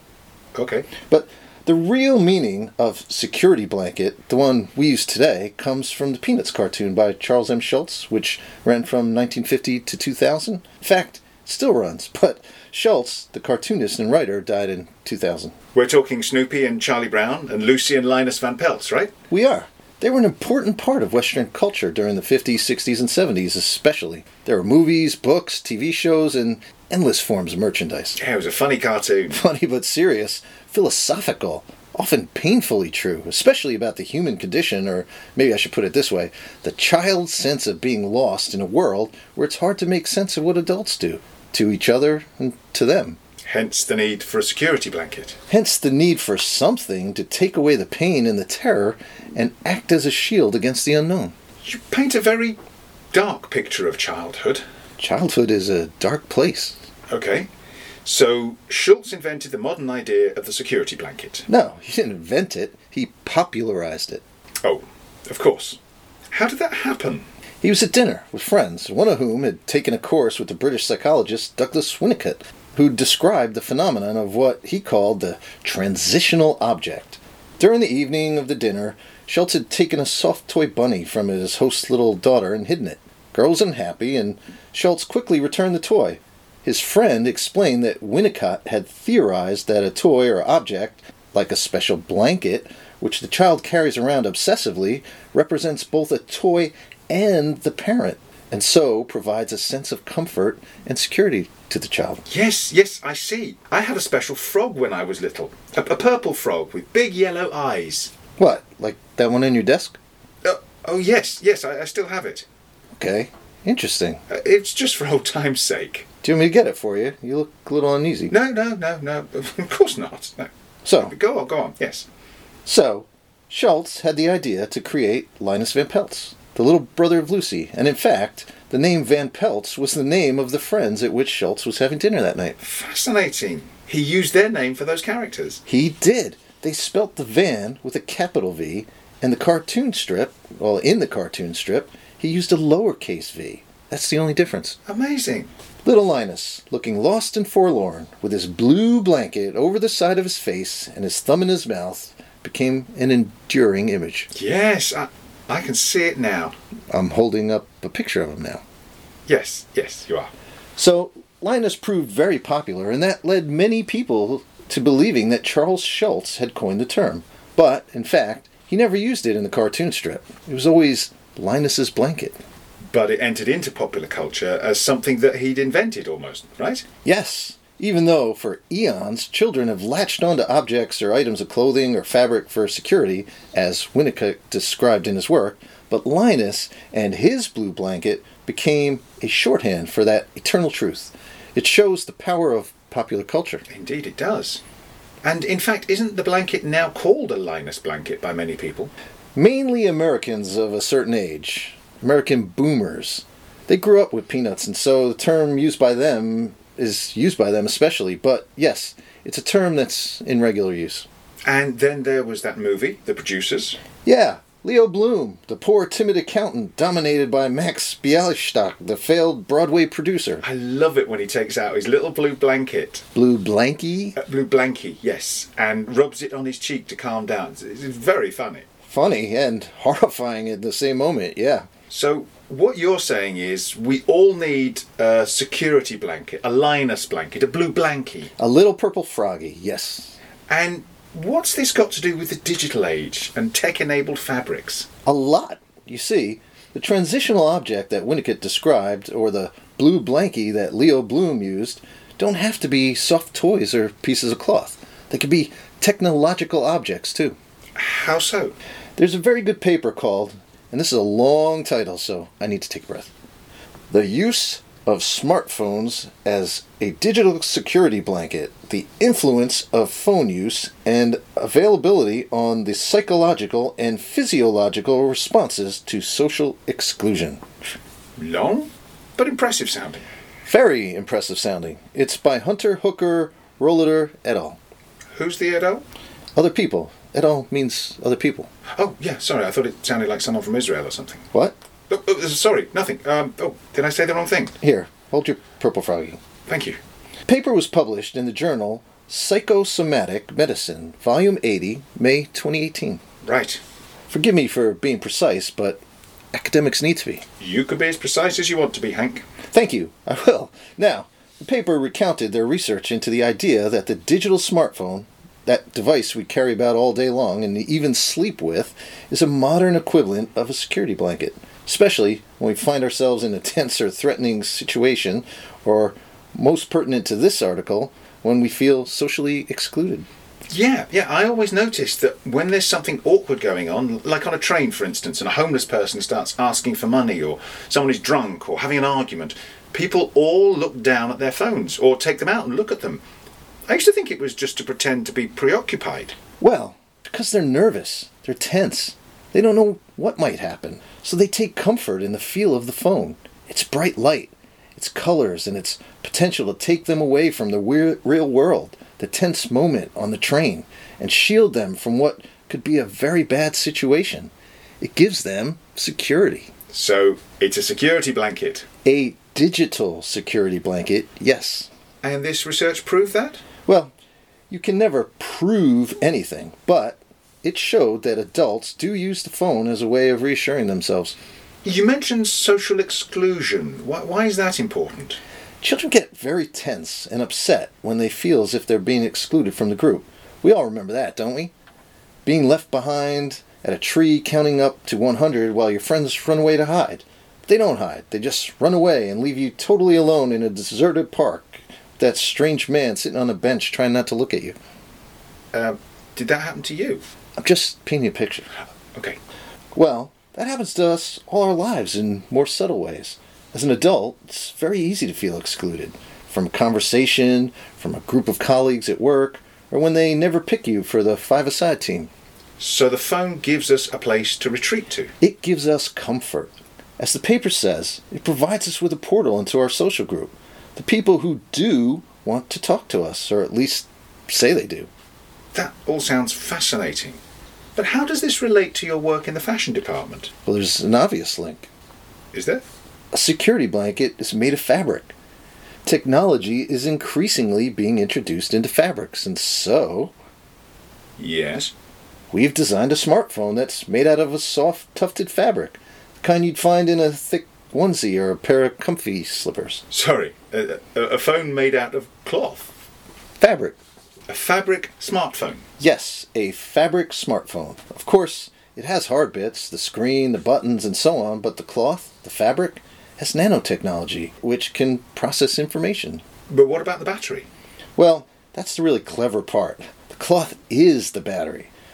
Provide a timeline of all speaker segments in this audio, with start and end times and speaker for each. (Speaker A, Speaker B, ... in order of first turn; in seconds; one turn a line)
Speaker A: 0.6-0.9
Speaker B: 1.1-15.5
Speaker A: 15.7-19.1
Speaker B: 19.3-28.2
Speaker A: 28.1-29.4
Speaker B: 29.3-43.2
Speaker A: 43.5-45.4
Speaker B: 45.5-51.4
Speaker A: 51.6-52.6
Speaker A: 53.1-54.6
Speaker B: 55.0-56.7
Speaker A: 57.1-57.5
Speaker A: 58.0-61.5
Speaker B: 61.5-64.2
Speaker A: 64.6-65.8
Speaker A: 66.3-67.2
Speaker B: 67.6-102.2
Speaker A: 102.3-108.1
Speaker B: 108.4-110.0
Speaker A: 110.4-112.5
Speaker B: 113.0-114.2
Speaker A: 114.3-116.0
Speaker B: 116.2-118.3
Speaker A: 118.3-122.1
Speaker B: 120.8-121.1
Speaker B: 122.7-132.6
Speaker A: 132.6-135.6
Speaker B: 135.7-144.8
Speaker A: 144.8-145.5
Speaker B: 145.8-154.3
Speaker A: 154.3-156.5
Speaker B: 156.9-158.6
Speaker A: 159.3-160.3
Speaker B: 160.8-172.4
Speaker A: 172.9-176.8
Speaker B: 177.0-193.6
Speaker A: 193.7-194.6
Speaker A: 195.2-198.9
Speaker B: 199.3-211.1
Speaker A: 211.4-213.8
Speaker B: 214.0-220.4
Speaker A: 220.4-223.0
Speaker B: 223.1-224.2
Speaker A: 224.2-228.7
Speaker B: 228.9-231.7
Speaker A: 231.9-238.3
Speaker B: 238.4-240.1
Speaker A: 240.5-244.9
Speaker B: 245.1-257.4
Speaker A: 257.8-258.5
Speaker B: 259.0-263.1
Speaker B: 263.9-277.4
Speaker A: 278.2-280.1
Speaker B: 280.4-284.6
Speaker A: 285.1-285.8
Speaker B: 286.4-288.5
Speaker A: 288.8-291.2
Speaker A: 291.9-294.6
Speaker B: 294.6-296.2
Speaker A: 296.5-296.8
Speaker B: 297.3-303.0
Speaker A: 303.2-303.6
Speaker B: 304.1-305.8
Speaker B: 306.3-307.2
Speaker A: 307.4-309.2
Speaker B: 309.5-330.1
Speaker A: 330.5-343.0
Speaker A: 343.7-346.1
Speaker B: 346.4-366.5
Speaker A: 366.7-368.6
Speaker B: 368.8-371.7
Speaker A: 372.0-373.4
Speaker B: 373.6-373.9
Speaker B: 374.5-381.1
Speaker A: 381.6-385.2
Speaker B: 385.6-391.5
Speaker B: 392.2-404.6
Speaker A: 405.5-407.0
Speaker B: 407.4-408.5
Speaker B: 409.8-422.1
Speaker A: 422.6-425.1
Speaker B: 425.2-434.9
Speaker A: 435.5-437.2
Speaker A: 437.8-440.3
Speaker B: 440.5-441.7
Speaker A: 442.3-442.6
Speaker B: 443.1-445.1
Speaker B: 445.9-450.1
Speaker A: 451.2-451.7
Speaker B: 452.3-459.8
Speaker A: 459.9-462.7
Speaker B: 463.4-463.8
Speaker A: 464.3-465.6
Speaker B: 465.8-476.2
Speaker A: 476.5-477.5
Speaker B: 478.0-481.7